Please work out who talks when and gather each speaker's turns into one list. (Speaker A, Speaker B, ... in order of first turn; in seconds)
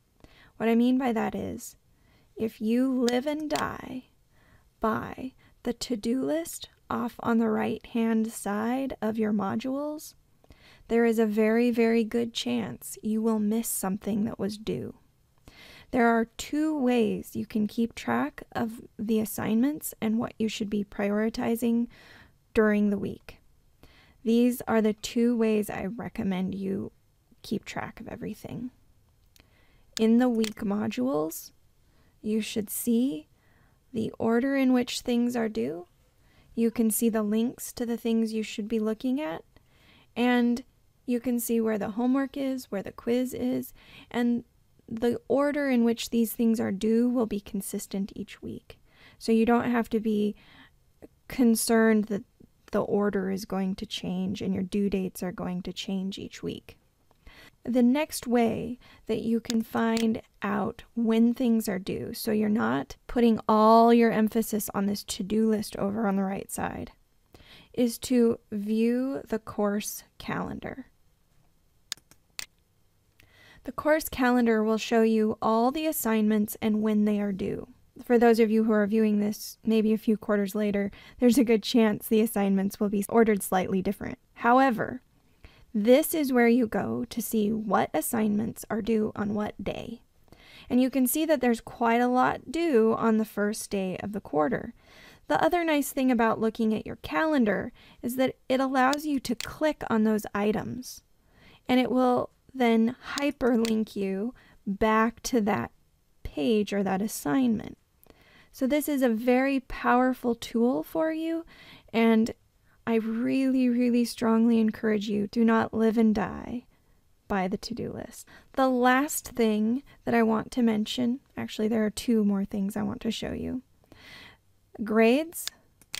Speaker A: 0.6-1.8, 2.4-4.1, 4.8-10.2, 10.9-15.0, 15.9-21.9, 22.5-23.4, 24.2-28.7, 30.0-31.5, 32.2-33.3, 33.9-35.9, 36.5-39.5, 40.1-50.4, 51.3-56.8, 57.6-66.9, 67.7-70.9, 73.6-85.0, 85.7-90.0, 90.7-94.7, 95.3-101.0, 101.7-107.8, 108.5-112.3, 112.8-116.7, 117.3-123.6, 124.8-125.5